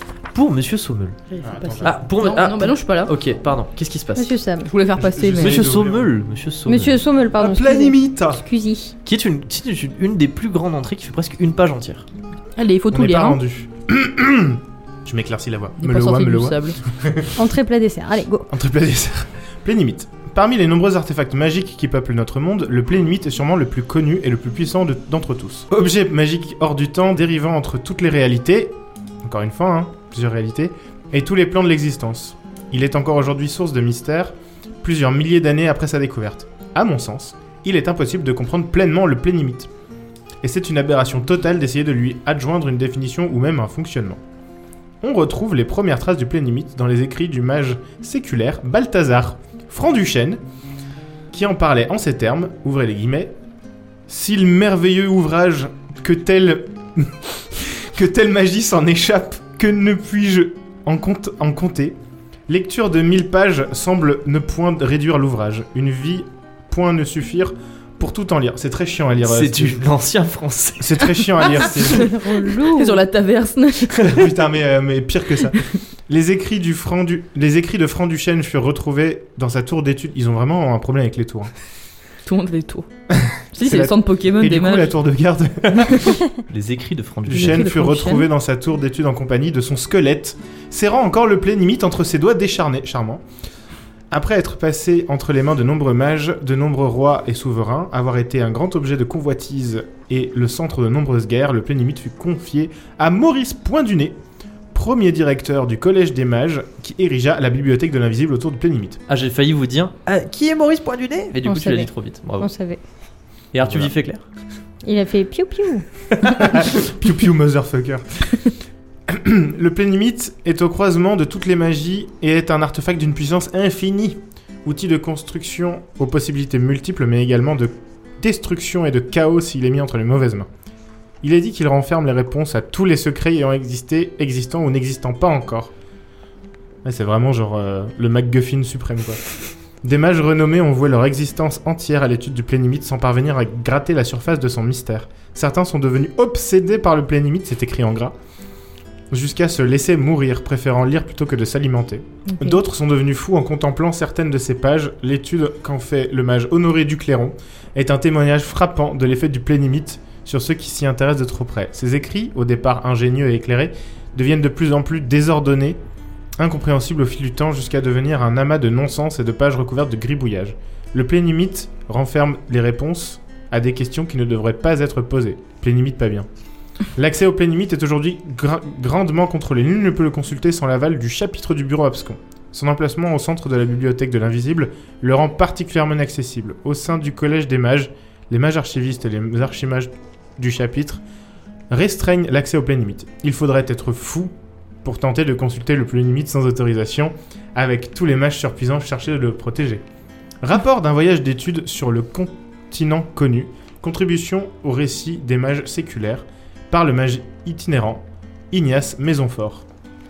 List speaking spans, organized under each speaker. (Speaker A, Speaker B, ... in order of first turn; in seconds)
Speaker A: 0.3-1.2, 1.8-4.3, 5.4-7.0, 9.0-12.1, 69.2-71.2, 86.5-87.7, 109.1-112.5, 113.5-114.2
Speaker B: 1.3-3.1, 4.7-5.7, 12.6-13.4, 15.8-16.8, 71.4-74.2, 82.2-82.9, 83.5-84.9, 87.3-88.3
Speaker C: 1.4-2.0, 5.0-6.1, 7.4-8.4, 12.9-17.4, 18.5-39.7, 40.4-44.2, 45.0-50.4, 51.3-53.3, 54.1-62.0, 62.5-69.8, 70.8-72.1, 74.0-81.5, 83.1-86.2, 87.3-93.2, 94.1-104.2, 104.7-109.0, 113.6-113.9, 116.3-118.4, 119.1-130.5, 131.2-135.7, 136.8-139.2, 139.8-148.1, 149.1-165.8, 166.4-176.2, 176.9-191.0, 191.7-199.8, 200.4-209.6
Speaker D: 4.2-4.7, 6.7-8.9, 17.3-18.5, 71.4-73.0, 111.4-112.8, 114.8-116.5, 152.3-152.6